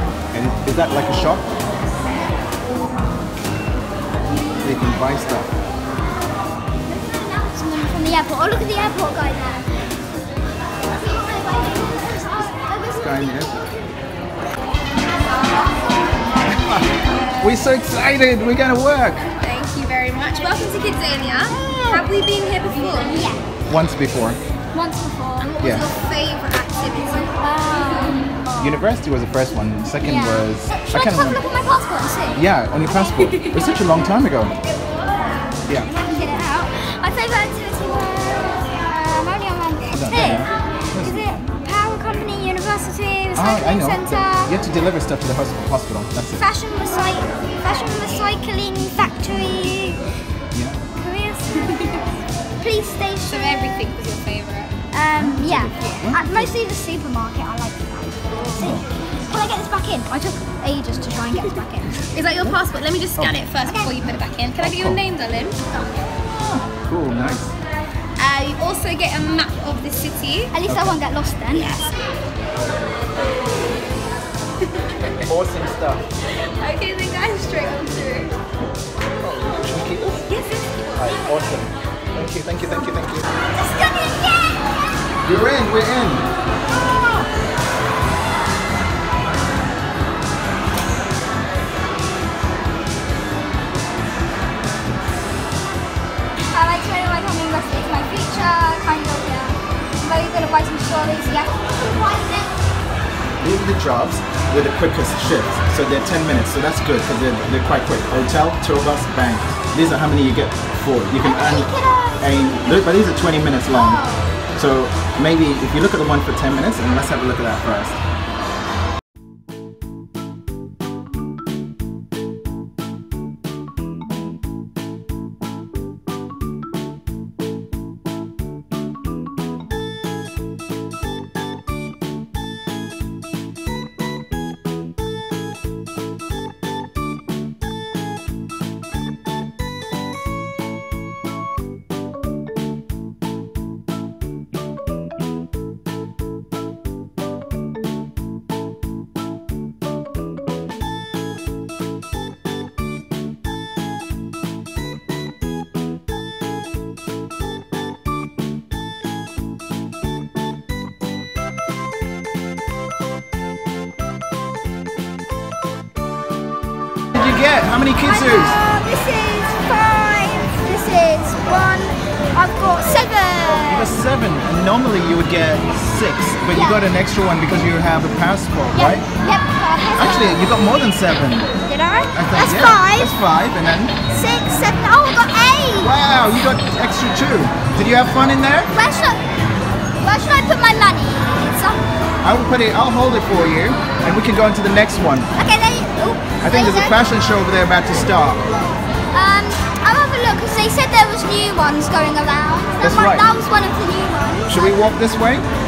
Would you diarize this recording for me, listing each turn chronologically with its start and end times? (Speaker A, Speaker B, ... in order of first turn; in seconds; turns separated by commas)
Speaker A: 0.3-1.5, Speaker A: 4.6-5.5, Speaker B: 6.9-9.7, Speaker B: 10.9-13.7, Speaker A: 12.9-13.7, Speaker A: 16.4-19.3, Speaker C: 19.2-23.1, Speaker B: 21.5-22.1, Speaker B: 23.0-23.5, Speaker A: 23.6-24.4, Speaker B: 24.7-25.6, Speaker C: 25.4-27.3, Speaker A: 25.6-25.9, Speaker B: 27.3-28.7, Speaker A: 28.6-31.4, Speaker B: 30.0-32.4, Speaker A: 32.3-34.5, Speaker B: 36.0-44.6, Speaker A: 39.9-41.4, Speaker A: 43.3-46.4, Speaker B: 46.3-50.0, Speaker A: 50.5-50.8, Speaker B: 51.0-52.0, Speaker B: 52.6-53.7, Speaker C: 53.3-54.8, Speaker B: 54.9-62.1, Speaker A: 55.2-56.5, Speaker A: 58.5-58.9, Speaker C: 62.1-65.6, Speaker A: 63.2-63.5, Speaker B: 63.5-64.1, Speaker A: 64.6-65.0, Speaker A: 66.3-67.5, Speaker C: 68.2-70.5, Speaker B: 70.5-71.9, Speaker A: 70.7-71.0, Speaker C: 71.5-71.9, Speaker A: 75.0-76.0, Speaker C: 76.3-78.3, Speaker A: 79.2-80.3, Speaker A: 81.0-83.2, Speaker B: 83.6-84.7, Speaker A: 85.2-86.3, Speaker B: 96.5-102.5, Speaker A: 103.4-114.0, Speaker B: 111.2-112.8, Speaker B: 113.7-114.3, Speaker A: 114.5-118.0, Speaker A: 167.1-168.6, Speaker B: 168.0-173.9, Speaker A: 173.6-179.1, Speaker B: 176.5-176.9, Speaker B: 178.7-180.6, Speaker A: 179.9-181.5, Speaker B: 181.6-183.1, Speaker A: 182.1-183.9, Speaker B: 184.1-185.9, Speaker A: 185.8-188.7, Speaker B: 188.7-189.2, Speaker B: 190.0-191.8, Speaker A: 192.2-195.3, Speaker B: 195.3-197.1, Speaker A: 196.4-198.4, Speaker B: 198.6-204.9, Speaker A: 202.8-203.3, Speaker A: 204.5-205.5